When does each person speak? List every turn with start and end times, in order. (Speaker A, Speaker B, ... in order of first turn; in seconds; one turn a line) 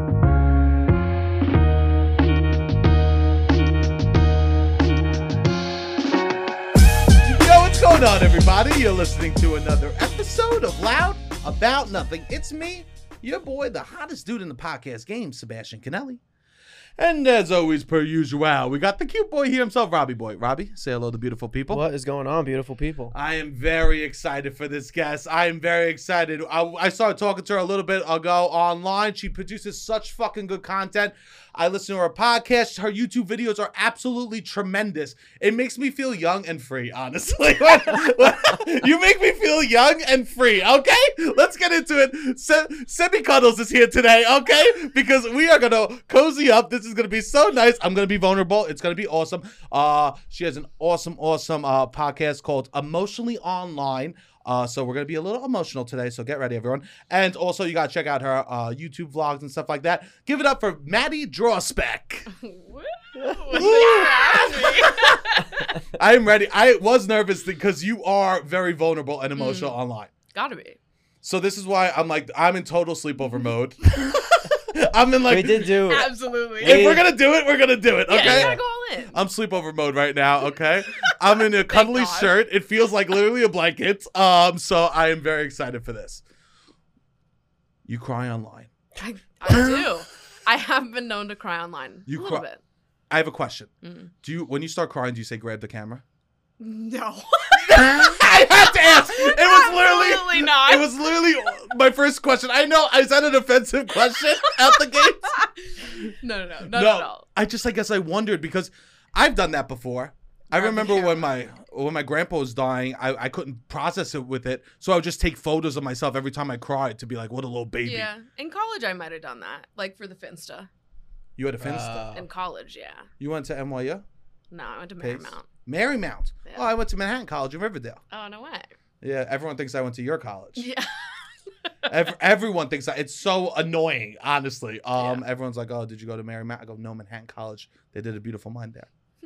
Speaker A: 7.2-16.2
Speaker A: 17.0-21.8
Speaker B: 21.7-23.1
Speaker A: 23.1-62.3
Speaker C: 62.3-65.7
Speaker B: 63.1-63.8
Speaker A: 63.5-65.2
Speaker A: 66.0-70.1
Speaker C: 69.3-69.8
Speaker C: 70.3-70.8
Speaker A: 71.2-76.0
Speaker B: 75.3-77.1
Speaker C: 75.9-77.0
Speaker A: 76.6-78.6
Speaker C: 78.1-79.2
Speaker B: 78.2-78.6
Speaker A: 79.1-86.2
Speaker C: 81.0-82.4
Speaker A: 87.8-88.7
Speaker C: 89.0-92.6
Speaker A: 89.5-89.9
Speaker A: 92.1-92.5
Speaker A: 93.1-93.7
Speaker C: 93.8-94.1
Speaker A: 94.2-96.0
Speaker C: 96.6-101.0
Speaker A: 97.6-106.1
Speaker C: 104.4-107.2
Speaker A: 106.7-118.1
Speaker C: 110.5-111.3
Speaker C: 117.8-120.7
Speaker A: 121.4-122.1
Speaker B: 121.6-122.3
Speaker C: 122.1-123.1
Speaker A: 123.2-124.0
Speaker C: 124.5-125.5
Speaker A: 125.0-128.0
Speaker C: 128.1-128.7
Speaker A: 129.0-130.7
Speaker C: 130.6-131.7
Speaker A: 131.9-138.9
Speaker C: 134.9-135.2